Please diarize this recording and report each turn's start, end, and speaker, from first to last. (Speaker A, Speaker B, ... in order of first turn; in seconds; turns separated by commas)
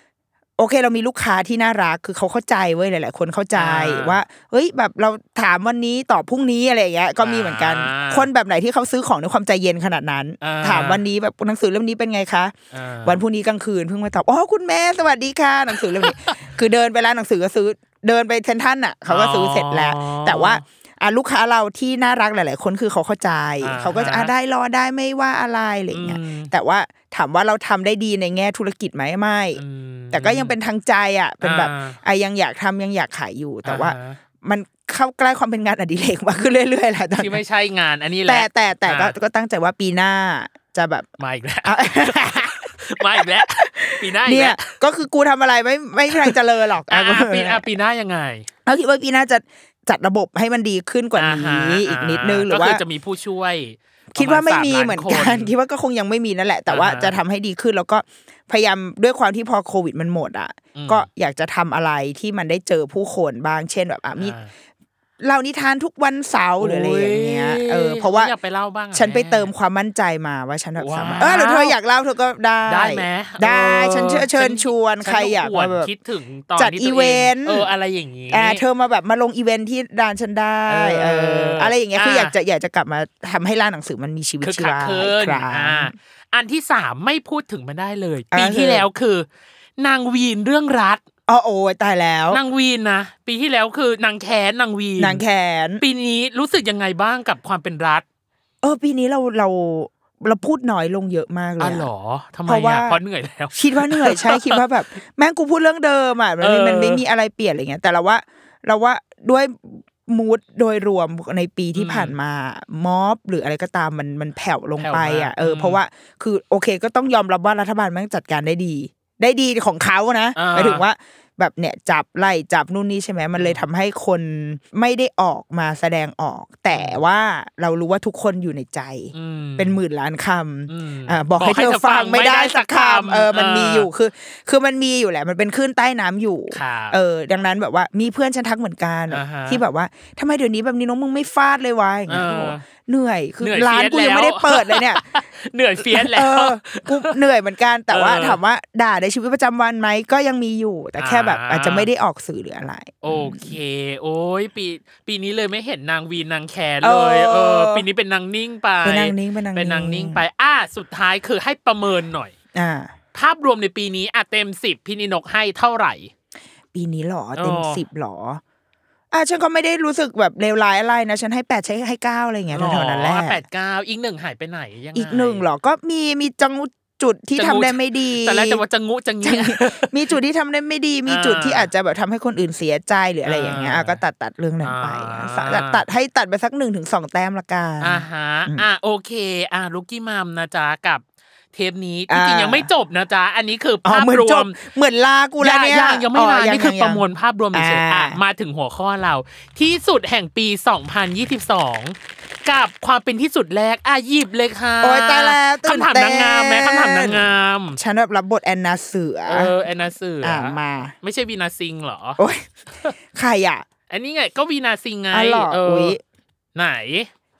Speaker A: 0.6-29.6, Speaker B: 3.5-4.2, Speaker B: 7.2-8.3, Speaker B: 10.4-11.0, Speaker B: 12.7-13.2, Speaker B: 16.0-16.4, Speaker B: 19.1-20.6, Speaker B: 23.6-24.3, Speaker B: 25.9-26.5, Speaker B: 29.6-30.6, Speaker A: 30.1-37.4, Speaker B: 31.4-32.0, Speaker B: 33.6-34.2, Speaker B: 37.2-39.1, Speaker A: 38.3-41.1, Speaker B: 41.2-44.8, Speaker A: 41.6-47.6, Speaker B: 46.9-48.5, Speaker A: 48.7-52.8, Speaker B: 51.2-55.5, Speaker A: 54.1-64.4, Speaker B: 56.7-57.2, Speaker B: 60.8-61.1, Speaker B: 64.2-64.5, Speaker A: 65.2-68.3, Speaker B: 66.6-69.5, Speaker A: 68.9-75.9, Speaker B: 70.8-71.8, Speaker B: 72.7-78.6, Speaker A: 76.6-77.7, Speaker A: 78.3-85.9, Speaker B: 80.7-82.3, Speaker B: 84.4-89.3, Speaker A: 88.3-88.9, Speaker B: 89.8-91.0, Speaker A: 91.3-92.4, Speaker B: 92.3-95.2, Speaker A: 95.0-95.8, Speaker B: 95.8-98.0, Speaker A: 98.6-101.9, Speaker B: 101.6-104.7, Speaker A: 102.5-103.0, Speaker A: 103.5-145.1, Speaker B: 106.4-107.0, Speaker B: 111.8-112.2, Speaker B: 114.8-115.8, Speaker B: 120.3-120.8, Speaker B: 123.3-123.7, Speaker B: 126.7-127.0, Speaker B: 129.1-129.8, Speaker B: 130.7-133.9, Speaker B: 136.5-137.0, Speaker B: 139.1-139.6, Speaker B: 142.1-142.6, Speaker B: 143.4-147.2, Speaker A: 145.8-153.6, Speaker B: 147.9-148.4, Speaker B: 151.0-151.9, Speaker B: 153.0-162.3, Speaker A: 156.8-157.8, Speaker A: 158.8-160.2, Speaker A: 162.5-162.9, Speaker B: 163.1-166.1, Speaker A: 166.7-168.4, Speaker B: 167.4-167.8, Speaker A: 169.1-173.4, Speaker B: 172.5-175.4, Speaker A: 174.9-178.6, Speaker B: 177.4-179.9, Speaker A: 179.2-188.7, Speaker B: 181.1-181.7, Speaker B: 183.2-184.0, Speaker B: 184.6-185.8, Speaker B: 187.8-194.6, Speaker A: 192.1-192.7, Speaker A: 193.8-198.2, Speaker B: 195.4-207.8, Speaker A: 204.8-209.6, Speaker B: 209.3-212.2, Speaker A: 210.2-210.9, Speaker A: 212.2-212.5, Speaker A: 213.1-213.7, Speaker B: 213.9-216.0, Speaker A: 215.1-216.0, Speaker B: 216.6-217.1